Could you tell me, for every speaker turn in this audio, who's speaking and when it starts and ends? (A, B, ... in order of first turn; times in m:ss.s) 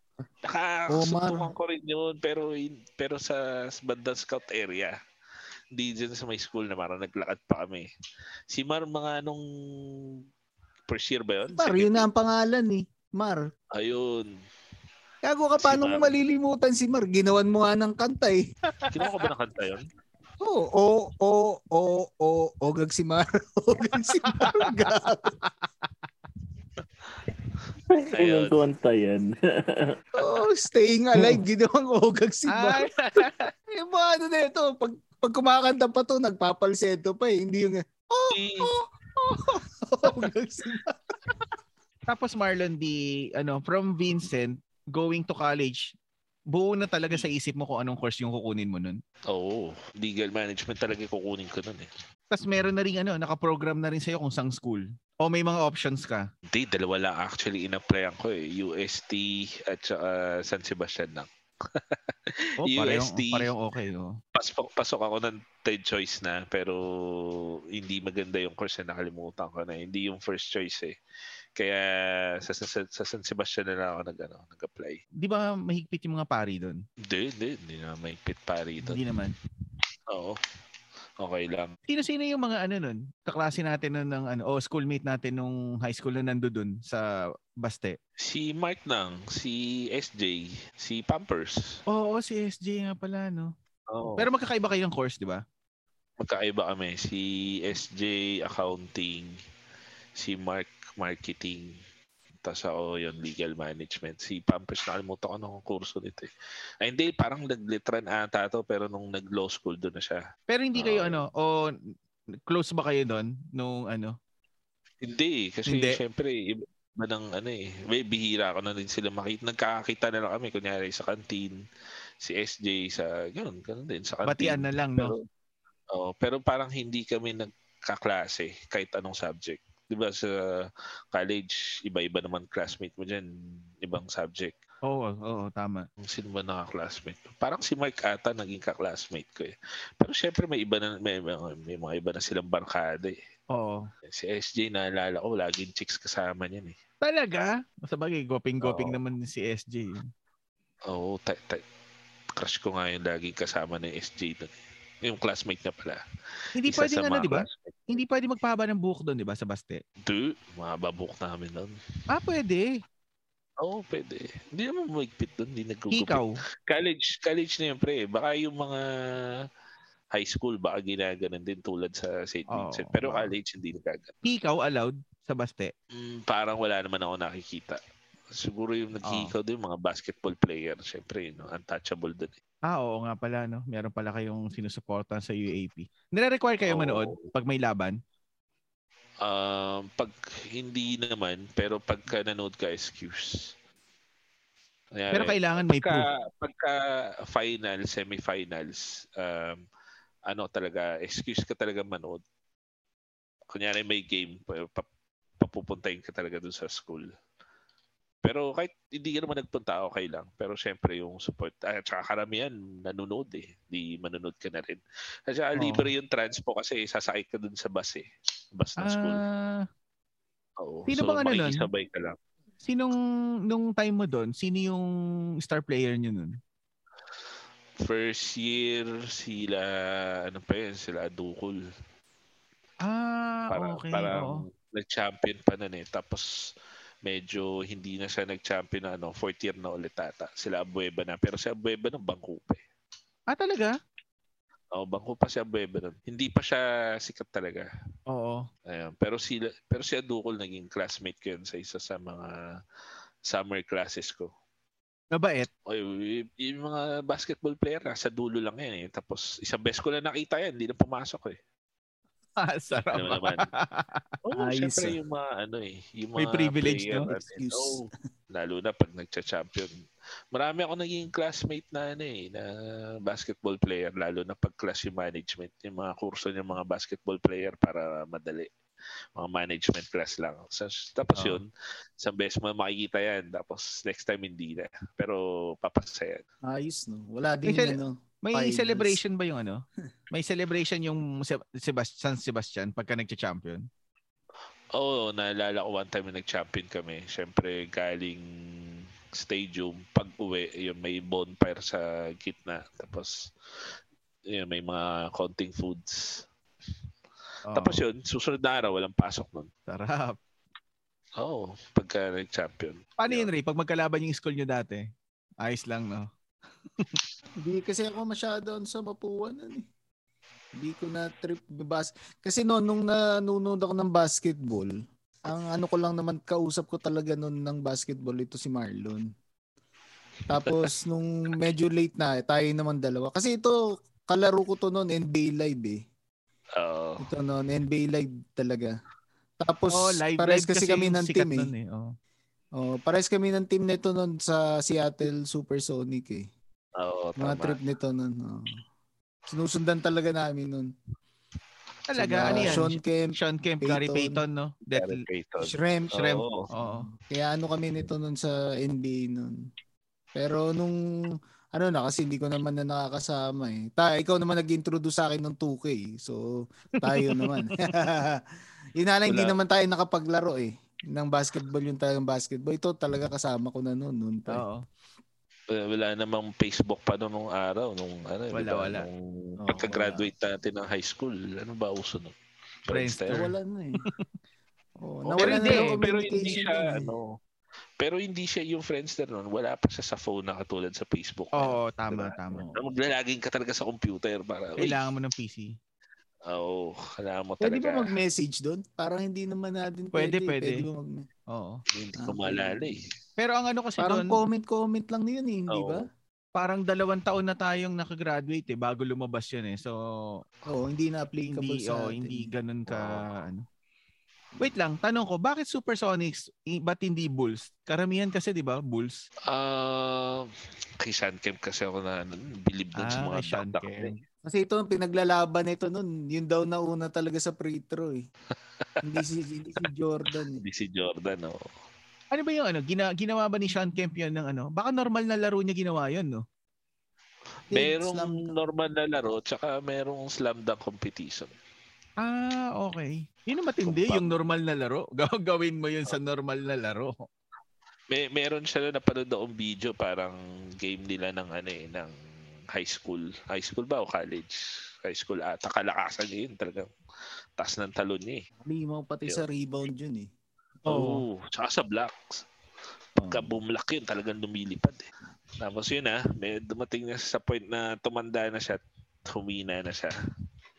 0:00.4-0:04.9 A
0:00.9-0:01.5 B
0:05.7-0:07.9 A
0:08.5-0:10.1 A
0:10.9-0:12.0 A
0:11.6-0:13.4 B
0:13.7-0:14.3 A
0:15.2-0:18.5 B
0:15.6-0:16.2 A
0:18.9-0:19.8 A
0:20.4-0:25.4 B
0:24.2-0:24.9 C
0:27.9-0:30.0 D
0:28.1-0:28.6 A
0:30.2-0:32.9 B
0:32.5-0:33.5 C
0:33.7-0:41.0 B
0:38.3-0:38.7 A
0:42.1-0:45.9 C
0:46.5-0:49.0 C
0:49.3-0:51.9 A
0:52.3-0:56.2 C
0:56.5-1:02.0 A
1:02.6-1:04.2 C
1:02.6-1:03.5 A
1:04.3-1:10.9 A
1:11.6-1:15.0 A
1:15.2-1:16.8 C
1:17.1-1:19.0 A
1:18.8-1:19.3 C
1:20.1-1:20.4 A
1:21.2-1:21.8 A
1:21.9-1:27.0 C
1:27.6-1:28.0 C
1:28.2-1:31.8 A
1:31.9-1:33.5 C
1:33.9-1:34.3 A
1:34.2-1:35.4 C
1:36.2-1:39.3 A
1:40.2-1:41.7 A
1:42.4-1:46.3 A
1:46.8-1:50.2 A
1:50.5-1:51.7 C
1:50.7-1:51.2 A
1:52.5-1:54.1 C
1:55.0-2:01.6 A
1:55.7-1:56.0 C
2:02.2-2:05.2 A
2:04.3-2:05.1 C
2:05.9-2:13.3 A
2:13.8-2:14.5 A
2:14.8-2:15.8 C
2:16.0-2:23.2 A
2:23.5-2:23.9 C
2:24.1-2:26.8 A
2:27.0-2:30.1 C
2:28.6-2:29.0 A
2:30.9-2:31.6 A
2:32.4-2:36.0 A
2:36.6-2:39.8 C
2:36.7-2:37.9 A
2:40.0-2:41.7 A
2:42.1-2:42.7 C
2:43.6-2:49.4 A
2:45.9-2:46.3 C
2:50.1-2:54.1 A
2:52.5-2:53.3 C
2:54.2-2:55.7 C
2:55.9-2:57.8 A
2:58.3-3:02.3 A
2:59.0-2:59.3 C
3:02.7-3:08.0 C
3:06.7-3:07.3 A
3:09.2-3:13.5 A
3:14.9-3:19.6 A
3:15.1-3:16.0 C
3:20.3-3:22.2 A
3:23.5-3:24.9 A
3:25.4-3:27.1 A
3:28.2-3:38.0 A
3:35.6-3:35.9 C
3:38.6-3:39.2 A
3:38.8-3:39.6 C
3:40.6-3:42.2 A
3:40.9-3:41.6 C
3:42.6-3:42.9 C
3:43.5-3:44.9 C
3:45.4-3:46.4 C
3:47.8-3:51.6 A
3:52.8-3:54.4 C
3:53.5-3:56.3 A
3:57.0-4:02.6 A
4:03.3-4:03.8 C
4:04.7-4:07.7 A
4:08.1-4:08.5 C
4:08.7-4:12.4 A
4:13.2-4:14.3 A
4:15.1-4:15.5 C
4:15.7-4:21.4 A
4:22.4-4:24.0 C
4:22.9-4:23.5 A
4:24.2-4:29.7 A
4:24.4-4:25.0 B
4:26.2-4:27.1 C
4:27.1-4:27.8 B
4:30.3-4:38.5 A
4:39.2-4:41.5 A
4:41.1-4:41.4 C
4:42.0-4:46.2 A
4:46.4-4:49.0 B
4:47.5-4:53.7 C
4:54.7-5:03.3 A
5:04.3-5:06.2 A
5:07.5-5:07.8 C
5:07.5-5:09.5 A
5:09.7-5:10.2 C
5:11.2-5:13.3 A
5:13.0-5:14.9 C
5:15.4-5:16.1 C
5:17.4-5:19.6 B
5:20.6-5:29.0 B
5:30.3-5:35.8 B
5:36.6-5:37.0 A
5:37.0-5:38.7 B
5:39.4-5:41.5 B
5:39.7-5:41.9 C
5:42.6-5:46.3 B
5:46.8-5:47.6 A
5:47.2-5:48.6 B
5:49.3-5:50.7 B
5:51.9-5:55.0 C
5:52.0-5:54.2 B
5:52.2-5:52.6 A
5:54.7-5:56.4 A
5:55.4-5:59.3 B
5:56.5-5:56.9 C
6:00.1-6:00.8 B
6:01.5-6:06.2 B
6:06.8-6:08.2 B
6:06.8-6:07.4 C
6:08.8-6:14.4 B
6:09.1-6:09.4 A
6:14.3-6:14.6 C
6:15.5-6:22.1 A
6:18.3-6:18.8 C
6:19.4-6:20.1 B
6:22.6-6:23.3 A
6:22.7-6:23.3 C
6:23.1-6:23.8 B
6:24.8-6:26.9 B
6:25.0-6:27.2 A
6:25.2-6:25.8 C
6:27.8-6:34.8 A
6:31.3-6:32.5 C
6:34.6-6:35.5 C
6:36.3-6:37.9 A
6:37.4-6:41.0 B
6:39.9-6:40.6 C
6:41.3-6:41.6 C
6:41.7-6:42.8 A
6:42.0-6:42.6 B
6:43.2-6:44.2 C
6:43.8-6:45.9 B
6:45.5-6:45.8 A
6:46.4-6:50.2 C
6:50.5-6:52.3 B
6:51.3-6:53.4 C
6:54.4-6:59.0 C
6:59.3-7:00.3 A
7:00.8-7:03.9 A
7:02.8-7:04.0 C
7:04.2-7:08.0 B
7:08.8-7:10.4 B
7:10.4-7:11.5 A
7:12.1-7:16.2 C
7:17.5-7:18.4 B
7:17.5-7:21.3 A
7:22.0-7:27.0 C
7:23.6-7:24.1 A
7:27.9-7:31.9 A
7:32.5-7:36.7 A
7:37.4-7:38.2 A
7:38.4-7:40.1 B
7:40.6-7:42.2 A
7:40.7-7:41.0 C
7:43.0-7:43.4 B
7:43.1-7:44.8 A
7:45.4-7:49.9 A